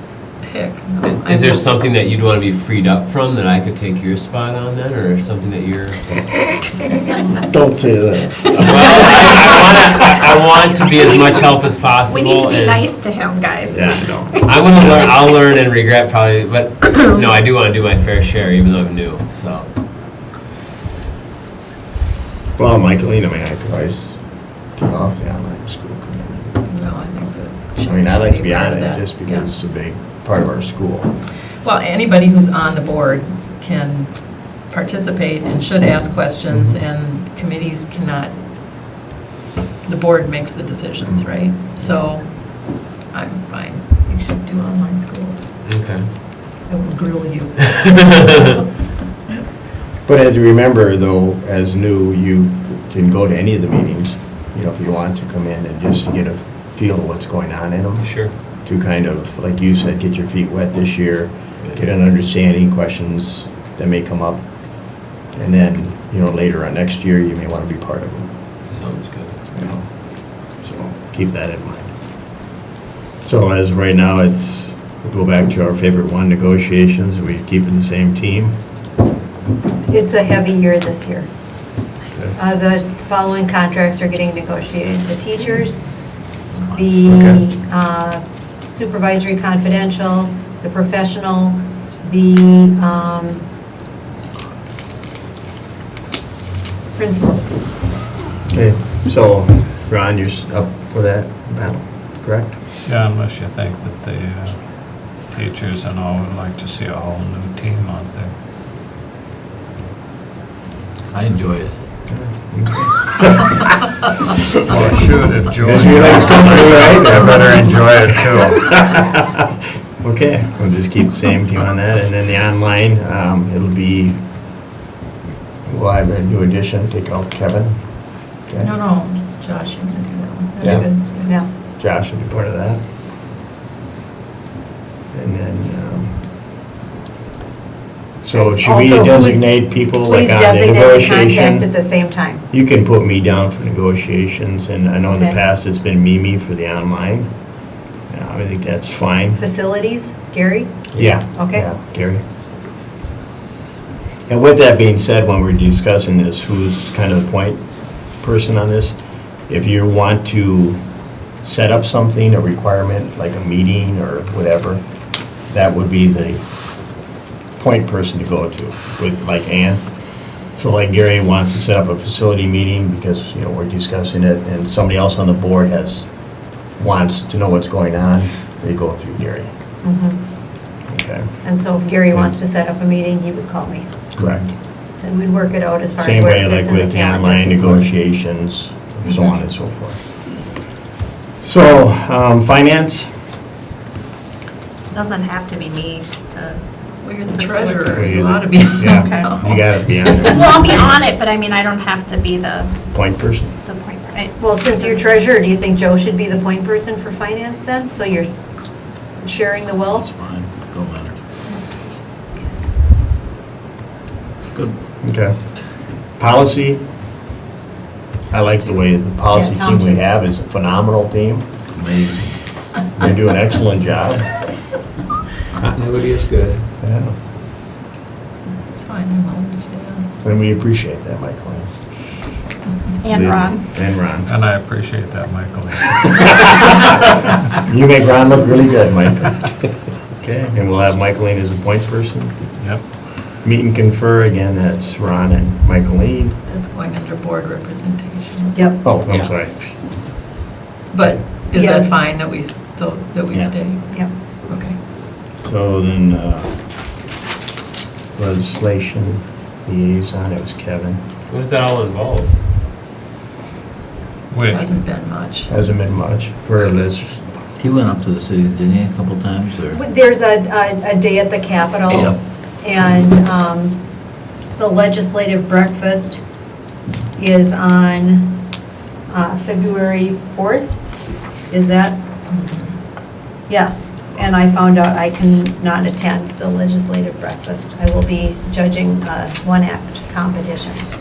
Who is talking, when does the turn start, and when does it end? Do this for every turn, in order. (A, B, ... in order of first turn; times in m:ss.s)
0:00.4-0:01.6 A
0:01.0-0:06.3 B
0:07.3-0:09.2 C
0:08.6-0:12.9 B
0:12.1-0:14.5 D
0:13.7-0:15.2 C
0:14.4-0:19.7 B
0:22.6-0:26.6 C
0:26.6-0:29.5 A
0:27.8-0:31.1 C
0:31.6-0:38.4 A
0:36.5-0:36.8 C
0:39.8-0:45.6 A
0:45.7-0:46.1 B
0:46.7-0:48.6 A
0:50.0-1:08.3 C
0:58.0-0:58.3 B
1:08.7-1:09.4 B
1:09.5-1:12.0 C
1:13.2-1:18.6 C
1:19.8-1:21.3 E
1:22.4-1:33.4 E
1:27.1-1:27.4 C
1:37.0-1:37.6 E
1:38.5-1:42.6 C
1:42.8-1:48.3 F
1:51.1-1:51.8 G
1:52.1-1:53.6 C
1:54.7-1:58.8 F
1:55.6-1:57.7 C
1:58.5-1:59.4 C
2:00.0-2:04.5 C
2:05.6-2:08.7 C
2:08.6-2:11.4 A
2:10.6-2:12.8 C
2:15.1-2:16.2 C
2:18.2-2:21.7 C
2:18.3-2:22.4 E
2:22.5-2:27.4 C
2:25.1-2:25.4 E
2:28.1-2:29.4 C
2:29.4-2:31.7 E
2:31.0-2:32.2 C
2:34.3-2:47.0 C
2:47.6-2:59.5 C
2:59.8-3:00.2 E
3:00.9-3:01.6 C
3:01.4-3:04.0 E
3:02.1-3:02.4 C
3:04.2-3:04.5 F
3:04.2-3:04.6 C
3:04.7-3:07.9 E
3:06.0-3:10.0 C
3:09.0-3:09.4 E
3:11.4-3:13.1 C
3:14.9-3:18.1 D
3:17.0-3:20.5 A
3:17.9-3:20.6 C
3:18.9-3:19.3 D
3:20.3-3:22.7 D
3:22.9-3:23.5 C
3:23.6-3:25.1 D
3:24.4-3:30.1 E
3:29.9-3:31.2 G
3:35.0-3:36.9 C
3:38.3-3:40.0 E
3:38.3-3:41.6 C
3:41.7-3:42.8 G
3:43.0-3:44.5 C
3:45.6-3:46.7 G
3:46.8-3:47.2 C
3:48.6-3:50.1 A
3:50.2-3:51.7 C
3:53.0-3:53.6 D
3:53.0-3:54.3 C
3:54.2-3:56.7 F
3:57.6-4:02.9 C
4:02.6-4:02.9 F
4:03.4-4:06.4 C
4:06.4-4:08.6 A
4:08.8-4:10.0 C
4:10.9-4:14.8 A
4:11.5-4:11.9 E
4:13.3-4:13.6 C
4:15.4-4:16.6 C
4:18.2-4:21.0 C
4:21.3-4:22.4 B
4:24.3-4:24.7 F
4:24.5-4:25.5 A
4:25.5-4:27.4 C
4:27.6-4:29.8 G
4:29.7-4:33.8 E
4:31.9-4:32.2 G
4:34.5-4:36.2 E
4:37.2-4:38.4 E
4:39.1-4:40.8 E
4:41.5-4:42.0 E
4:42.3-4:42.8 A
4:43.5-4:50.9 E